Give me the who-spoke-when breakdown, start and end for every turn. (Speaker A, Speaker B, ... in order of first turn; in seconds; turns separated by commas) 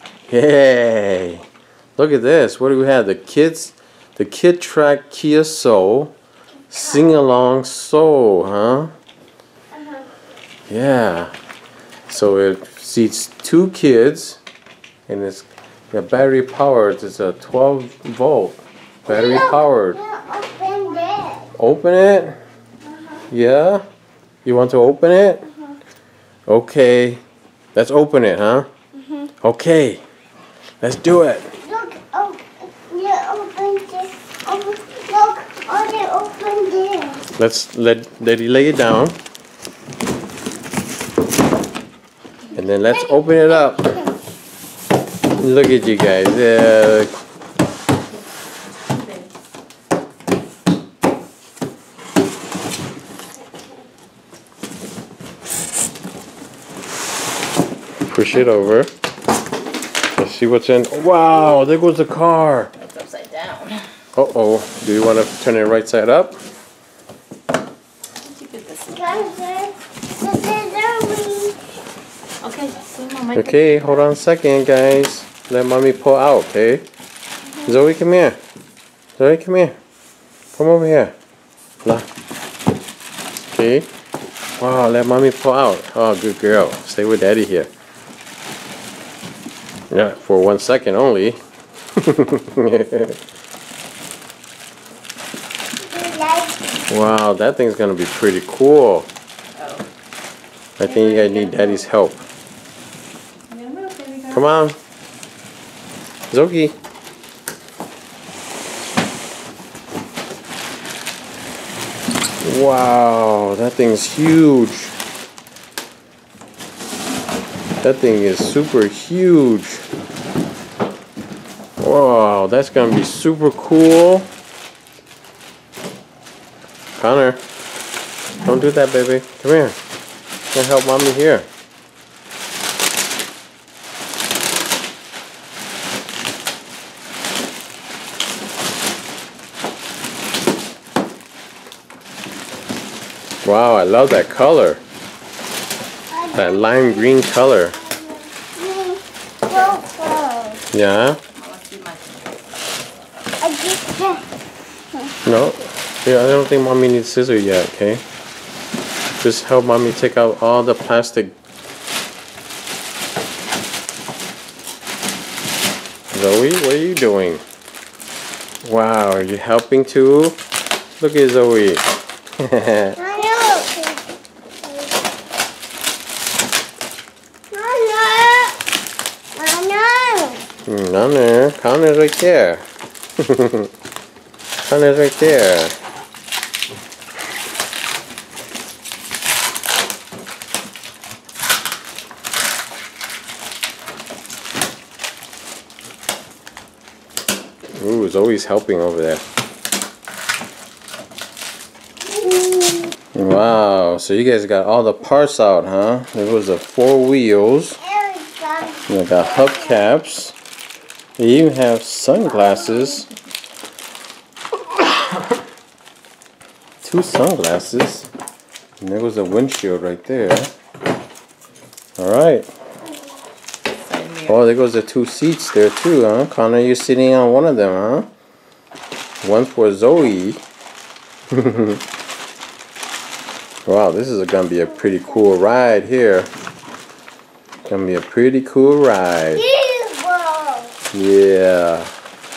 Speaker A: 0.3-1.4, Speaker A: 2.0-6.1, Speaker A: 6.7-8.9, Speaker A: 10.7-11.3, Speaker A: 12.1-14.4, Speaker A: 15.1-20.0, Speaker B: 19.1-21.5, Speaker A: 21.6-22.4, Speaker A: 23.3-23.8, Speaker A: 24.4-25.4, Speaker A: 26.5-27.2, Speaker A: 27.8-28.7, Speaker A: 29.4-30.0, Speaker A: 30.8-31.5, Speaker B: 31.6-37.2, Speaker A: 37.4-39.2, Speaker A: 42.5-44.0, Speaker A: 45.4-47.1, Speaker C: 48.9-49.3, Speaker A: 58.1-58.9, Speaker A: 60.1-62.7, Speaker C: 62.8-63.8, Speaker A: 64.2-66.4, Speaker C: 68.2-69.3, Speaker B: 68.9-71.6, Speaker C: 72.4-73.9, Speaker A: 73.3-76.8, Speaker A: 77.6-78.4, Speaker A: 79.2-79.8, Speaker A: 80.6-81.1, Speaker A: 83.5-83.9, Speaker A: 84.6-87.7, Speaker A: 89.9-91.4, Speaker A: 92.0-93.2, Speaker B: 95.8-96.7, Speaker A: 96.9-99.1, Speaker C: 99.5-99.8, Speaker A: 100.8-102.2, Speaker C: 100.8-101.9, Speaker C: 103.5-104.5, Speaker A: 104.3-104.8, Speaker A: 106.3-106.8, Speaker A: 112.4-114.9, Speaker A: 117.8-119.8, Speaker A: 121.8-124.3, Speaker A: 127.0-127.4, Speaker A: 128.4-129.8, Speaker A: 130.5-131.5, Speaker A: 143.4-144.8, Speaker B: 146.1-146.9, Speaker A: 146.3-147.8, Speaker B: 147.9-150.6, Speaker C: 149.5-149.8, Speaker A: 150.7-151.2, Speaker C: 151.3-152.4, Speaker B: 153.4-154.3, Speaker A: 155.2-158.0, Speaker A: 159.2-161.3, Speaker A: 166.1-167.4, Speaker A: 168.6-170.4, Speaker A: 171.0-171.9, Speaker A: 172.4-173.0, Speaker B: 173.0-174.0, Speaker B: 177.5-178.6, Speaker B: 179.4-180.4, Speaker A: 180.7-182.6, Speaker A: 183.2-183.7, Speaker A: 184.7-185.8, Speaker A: 197.8-199.2, Speaker B: 202.1-202.9, Speaker A: 203.1-207.8, Speaker B: 207.8-208.9, Speaker A: 208.9-210.4, Speaker A: 211.2-213.1, Speaker A: 214.7-215.2, Speaker A: 216.8-218.1, Speaker A: 218.8-220.5, Speaker A: 222.0-222.5, Speaker C: 223.7-224.4, Speaker A: 224.3-228.1, Speaker A: 229.2-230.4, Speaker A: 231.3-231.8, Speaker A: 233.7-236.3, Speaker A: 237.7-239.5, Speaker B: 239.3-240.8, Speaker A: 240.9-241.9